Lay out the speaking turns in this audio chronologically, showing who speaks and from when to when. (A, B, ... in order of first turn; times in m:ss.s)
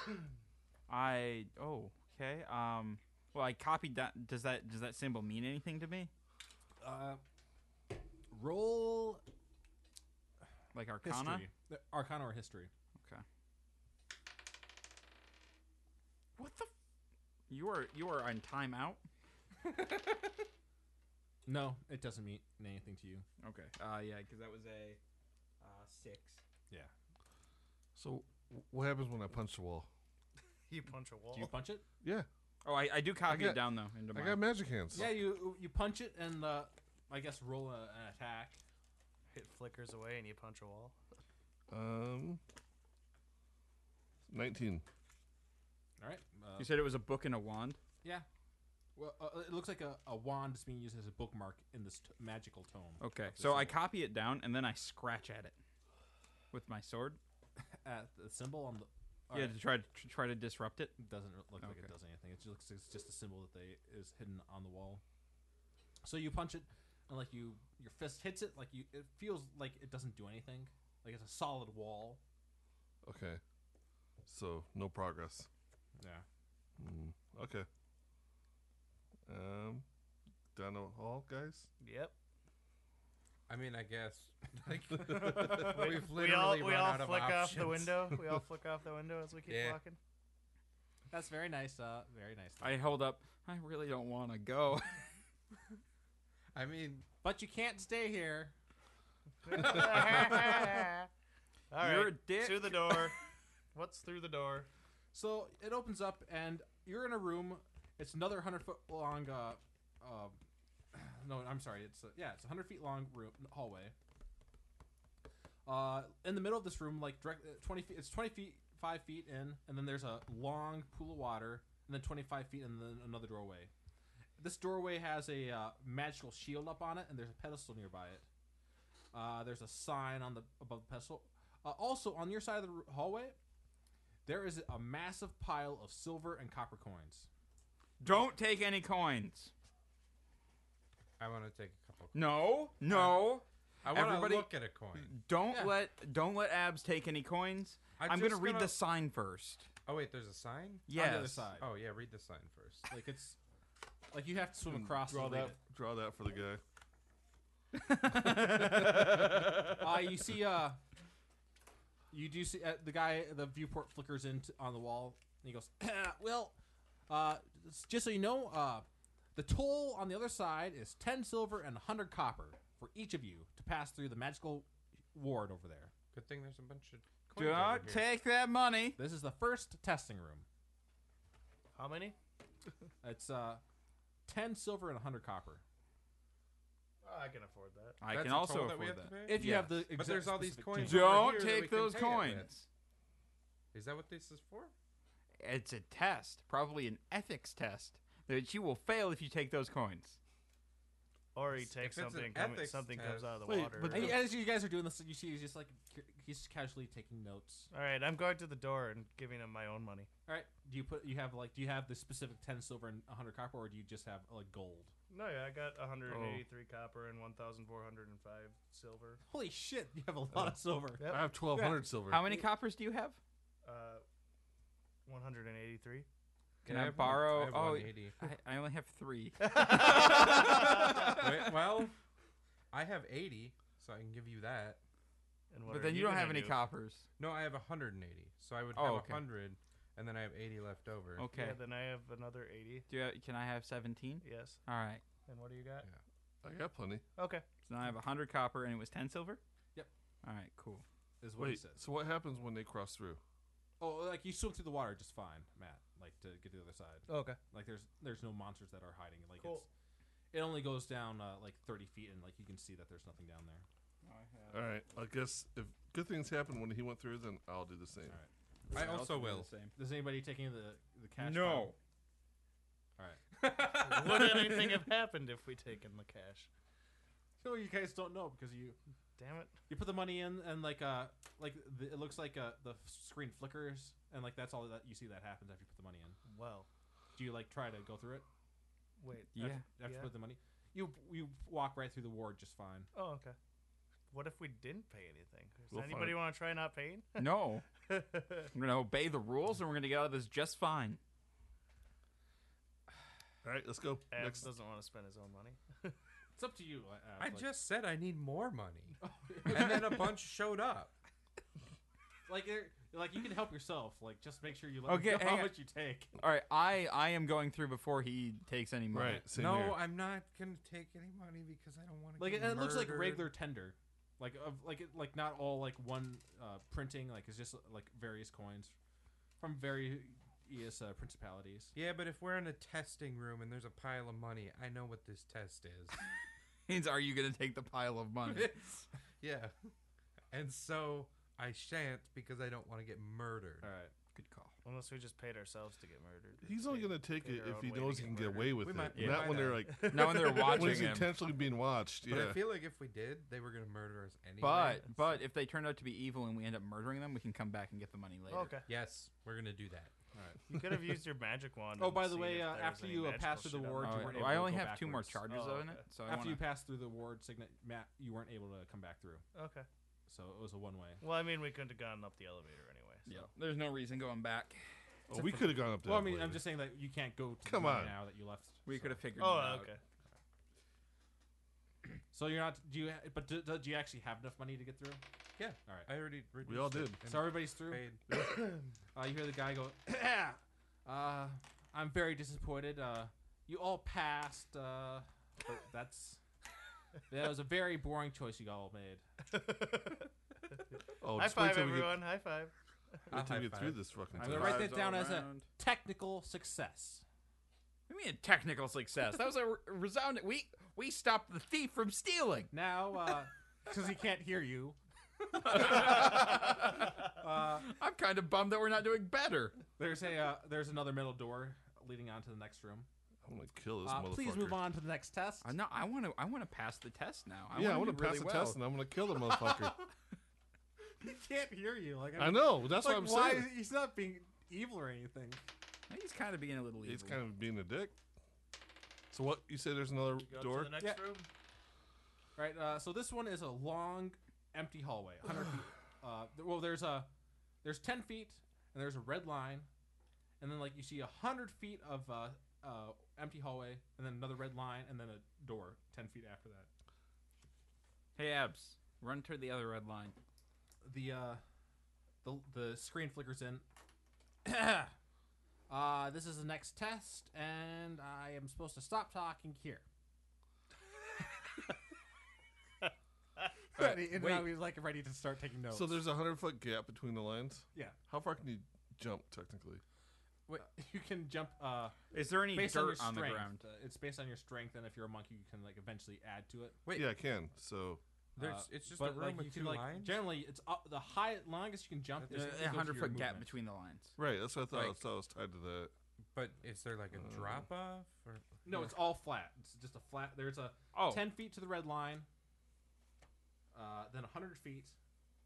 0:00.9-0:06.1 A
0:06.8-0:07.2 B
0:08.3-0:09.2 B
0:10.7-0:11.5 A
0:11.0-0:12.7 B
0:13.0-0:13.2 A
0:16.4-0:16.7 A
0:17.5-0:19.0 A
0:21.4-0:23.2 B
0:23.4-0:25.0 A
0:25.6-0:26.4 A
0:27.9-0:29.9 C
0:30.7-0:31.5 D
0:31.3-0:31.8 B
0:32.0-0:32.3 C
0:32.6-0:34.4 A
0:33.3-0:35.1 C
0:34.9-0:38.6 B
0:39.3-0:41.0 D
0:41.7-0:42.4 C
0:44.3-0:44.8 C
0:46.0-0:46.8 B
0:46.6-0:47.8 A
0:49.0-0:53.8 B
0:53.0-0:55.6 A
0:56.5-0:57.2 A
0:57.8-0:59.6 B
0:59.3-1:01.0 A
1:01.0-1:05.0 B
1:01.6-1:01.9 A
1:06.0-1:12.2 B
1:13.0-1:13.4 C
1:14.2-1:15.5 C
1:16.0-1:16.2 B
1:16.8-1:17.7 C
1:19.3-1:19.8 C
1:20.5-1:21.7 C
1:21.8-1:22.1 D
1:23.5-1:28.1 E
1:25.1-1:30.0 D
1:25.2-1:25.5 C
1:29.5-1:29.8 E
1:31.1-1:32.8 B
1:32.6-1:35.1 A
1:36.5-1:37.0 E
1:37.2-1:38.5 B
1:39.4-1:41.1 D
1:39.6-1:40.3 B
1:41.7-1:43.2 D
1:41.8-1:43.1 A
1:43.7-1:44.7 D
1:45.1-1:50.4 B
1:50.9-1:53.9 B
1:55.6-2:03.7 B
2:04.4-2:08.2 B
2:09.1-2:13.4 B
2:14.2-2:17.3 B
2:18.0-2:19.5 A
2:21.2-2:22.3 E
2:22.1-2:29.7 A
2:23.8-2:25.1 E
2:25.5-2:25.7 B
2:28.0-2:28.8 E
2:29.8-2:30.9 E
2:30.9-2:31.5 A
2:30.9-2:31.7 B
2:31.6-2:32.9 E
2:32.9-2:33.4 B
2:34.1-2:35.6 B
2:34.7-2:36.6 C
2:37.8-2:39.2 A
2:38.1-2:40.8 B
2:42.1-2:46.6 B
2:47.1-2:55.9 B
2:56.1-2:58.1 E
2:57.3-2:59.0 A
2:59.0-3:00.4 B
3:01.7-3:02.2 D
3:03.0-3:03.6 B
3:04.2-3:05.6 B
3:07.0-3:08.0 D
3:08.0-3:09.8 A
3:08.1-3:12.6 E
3:09.2-3:11.3 B
3:10.8-3:12.6 A
3:13.7-3:14.7 E
3:15.4-3:20.2 A
3:21.3-3:24.2 D
3:21.6-3:24.2 E
3:23.5-3:27.7 B
3:27.7-3:30.1 D
3:30.2-3:34.9 B
3:35.1-3:39.2 D
3:36.1-3:36.4 C
3:39.3-3:41.8 B
3:40.3-3:42.2 C
3:41.0-3:41.3 D
3:42.1-3:43.2 A
3:43.6-3:44.0 D
3:45.0-3:46.0 D
3:46.6-3:48.1 E
3:46.6-3:51.3 A
3:49.4-3:51.2 D
3:50.3-3:51.9 E
3:52.7-3:54.8 E
3:55.5-3:56.6 D
3:55.7-3:57.0 A
3:57.2-4:01.3 E
3:58.7-3:59.2 A
4:01.2-4:01.6 A
4:01.3-4:02.8 D
4:02.9-4:05.0 A
4:04.2-4:04.6 D
4:05.2-4:05.9 D
4:06.4-4:07.0 C
4:07.2-4:07.4 D
4:07.6-4:09.4 A
4:10.2-4:10.8 A
4:11.2-4:11.8 B
4:11.4-4:13.2 C
4:13.8-4:19.7 B
4:17.1-4:17.4 D
4:19.4-4:19.6 D
4:20.3-4:23.6 B
4:24.0-4:24.7 A
4:24.5-4:28.2 C
4:28.7-4:29.5 E
4:28.7-4:29.7 A
4:29.7-4:31.7 B
4:31.2-4:31.8 A
4:33.4-4:34.5 E
4:33.7-4:36.5 D
4:37.4-4:38.8 B
4:39.2-4:39.6 D
4:39.7-4:46.2 B
4:46.2-4:46.7 D
4:47.1-4:48.2 B
4:49.0-4:50.1 D
4:49.3-4:49.6 A
4:49.4-4:52.9 B
4:52.9-4:53.4 D
4:54.1-4:58.5 D
4:55.7-4:56.2 C
4:57.2-4:57.6 A
4:58.5-5:01.0 A
5:03.4-5:04.5 C
5:04.1-5:05.9 D
5:06.4-5:07.4 B
5:07.2-5:10.9 E
5:09.0-5:10.1 B
5:12.3-5:16.1 B
5:14.9-5:15.6 A
5:16.2-5:19.2 A
5:18.9-5:19.8 C
5:19.3-5:23.3 E
5:22.2-5:28.7 B
5:29.4-5:31.7 B
5:31.7-5:36.0 E
5:36.7-5:38.8 A
5:38.3-5:39.5 E
5:40.3-5:43.7 E
5:43.6-5:43.9 B
5:44.1-5:44.5 A
5:44.6-5:48.7 D
5:46.4-5:52.4 C
5:48.6-5:49.7 E
5:48.9-5:51.1 A
5:49.7-5:50.7 D
5:52.0-5:54.9 E
5:54.4-5:58.6 A
5:58.3-5:58.7 D
5:58.7-5:59.9 E
6:00.1-6:00.4 B
6:00.5-6:04.4 D
6:01.8-6:05.3 B
6:03.8-6:06.4 A
6:05.3-6:05.8 D
6:06.0-6:09.2 B
6:09.3-6:09.7 D
6:10.1-6:11.0 B
6:11.0-6:13.2 D
6:13.0-6:14.6 A
6:15.1-6:16.4 C
6:15.1-6:19.1 B
6:17.4-6:18.0 C
6:18.6-6:19.7 A
6:19.2-6:19.8 D
6:22.1-6:25.0 B
6:25.4-6:28.0 E
6:26.4-6:27.0 C
6:27.0-6:28.0 B
6:28.9-6:36.2 B
6:37.1-6:39.0 B
6:39.3-6:40.0 D
6:41.0-6:42.0 C
6:41.1-6:42.5 D
6:43.1-6:43.8 E
6:43.1-6:44.7 C
6:44.2-6:45.4 A
6:44.2-6:47.0 B
6:47.9-6:52.5 A
6:52.5-6:54.8 B
6:55.3-6:56.6 B
6:55.4-6:59.6 A
6:57.1-6:57.7 B
6:59.8-7:02.9 B
7:03.2-7:04.6 C
7:03.8-7:05.5 B
7:05.4-7:08.6 A
7:07.5-7:09.8 C
7:11.0-7:15.4 B
7:12.2-7:13.5 C
7:15.9-7:17.2 A
7:16.8-7:17.9 C
7:19.1-7:20.8 C
7:20.2-7:21.3 D
7:20.8-7:21.2 B
7:22.4-7:27.1 B
7:27.6-7:29.7 B
7:30.4-7:36.7 B
7:38.2-7:40.2 A
7:40.8-7:41.4 B
7:42.2-7:43.6 B
7:44.4-7:44.9 B
7:45.7-7:49.8 B
7:53.8-7:56.0 B
7:53.9-7:54.4 A
7:54.1-7:54.4 E
7:55.7-7:59.8 C
8:00.6-8:06.8 B
8:02.1-8:03.6 A
8:06.8-8:07.1 E
8:06.9-8:08.0 C
8:08.4-8:13.5 B
8:08.4-8:10.3 E
8:12.2-8:12.6 E
8:12.3-8:14.1 A
8:14.2-8:15.9 C
8:16.3-8:18.9 E
8:17.2-8:17.6 C
8:18.6-8:22.3 B
8:20.9-8:21.2 A
8:23.7-8:25.0 B